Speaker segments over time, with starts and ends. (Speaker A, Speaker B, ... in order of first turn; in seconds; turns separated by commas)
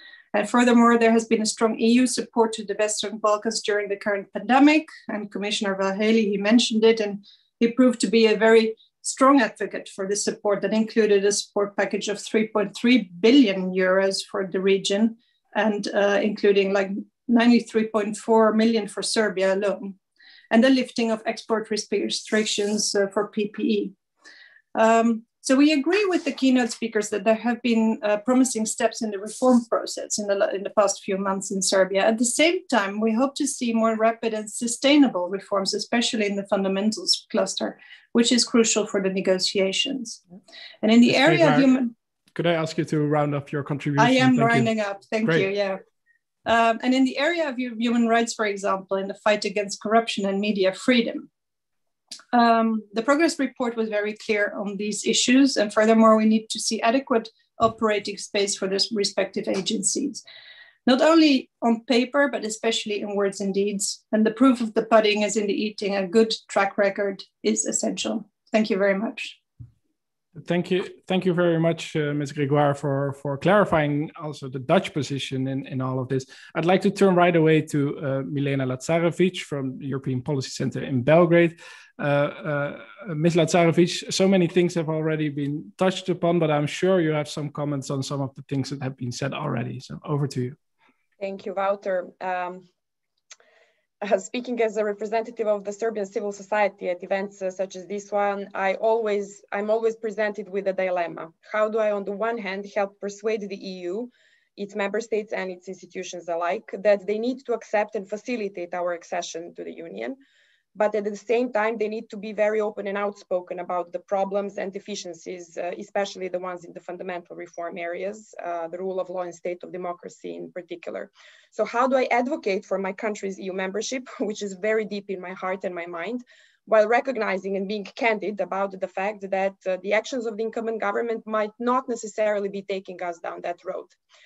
Speaker A: 0.3-20.0, Speaker A: 20.5-23.9, Speaker A: 24.8-40.2, Speaker A: 40.8-41.9, Speaker B: 41.1-41.7, Speaker B: 42.4-44.7, Speaker A: 44.0-45.8, Speaker B: 45.2-45.5, Speaker A: 46.5-51.3, Speaker A: 52.3-60.2, Speaker A: 60.9-69.4, Speaker B: 70.4-90.6, Speaker C: 91.2-92.7, Speaker C: 94.0-110.2, Speaker C: 110.8-133.9